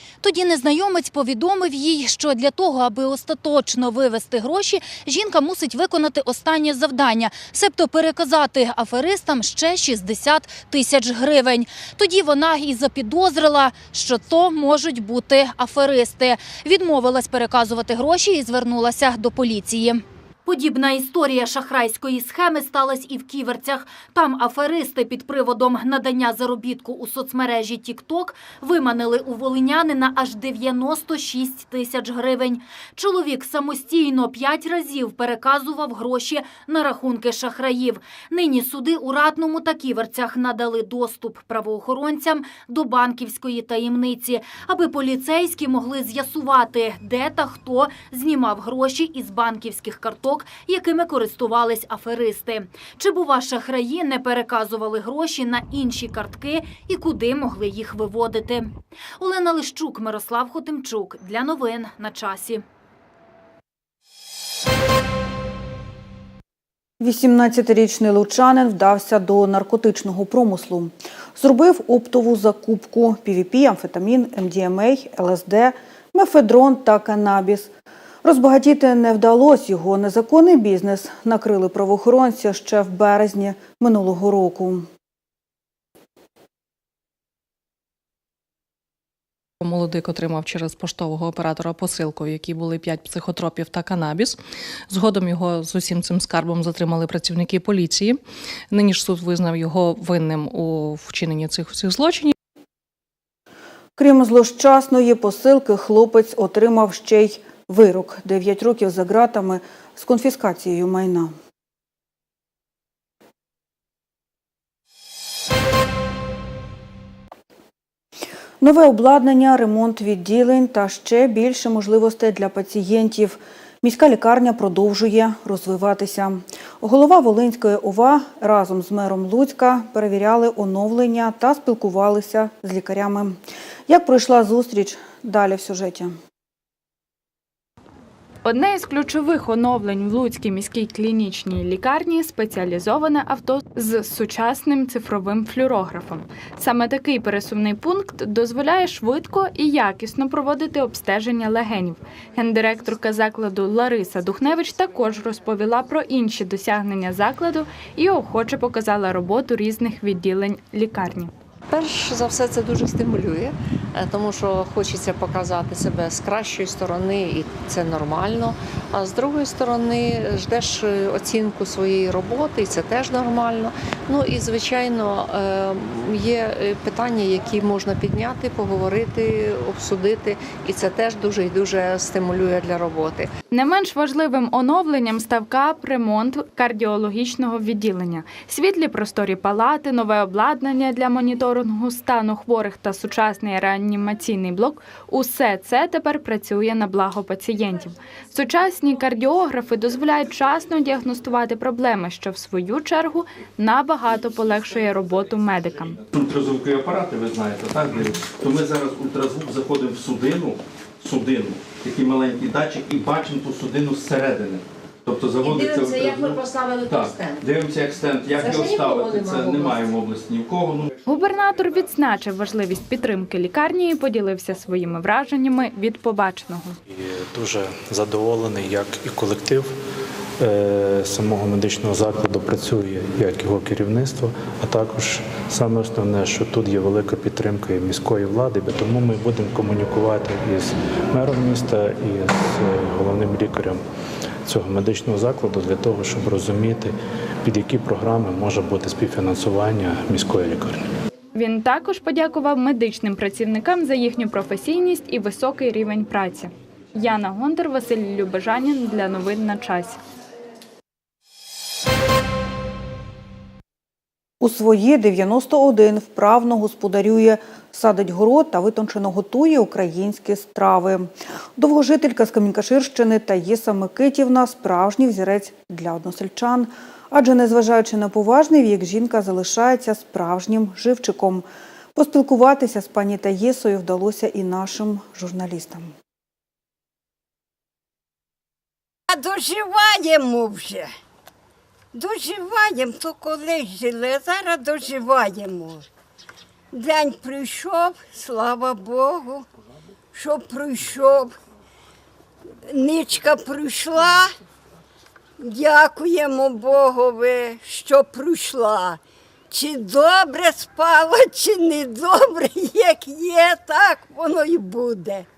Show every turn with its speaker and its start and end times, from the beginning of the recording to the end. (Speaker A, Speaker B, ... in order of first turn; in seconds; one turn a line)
Speaker A: 0.2-62.6
Speaker B: 67.0-77.7
Speaker B: 78.2-84.9
Speaker C: 89.6-94.4
Speaker C: 94.9-98.2
Speaker C: 98.7-102.3
Speaker B: 104.0-111.3
Speaker B: 118.6-136.2
Speaker D: 138.4-161.3
Speaker E: 161.7-183.3
Speaker D: 183.5-206.0
Speaker F: 206.1-220.9
Speaker E: 215.4-217.4
Speaker E: 218.3-219.9
Speaker D: 221.0-226.8
Speaker G: 226.9-229.8
Speaker G: 230.4-243.8
Speaker G: 244.5-250.9
Speaker D: 251.3-260.0
Speaker B: 264.4-285.9
Speaker H: 289.1-290.9
Speaker H: 291.9-295.9
Speaker H: 296.7-299.5
Speaker H: 300.1-301.3
Speaker H: 302.7-304.4
Speaker H: 305.4-309.0
Speaker H: 309.5-315.3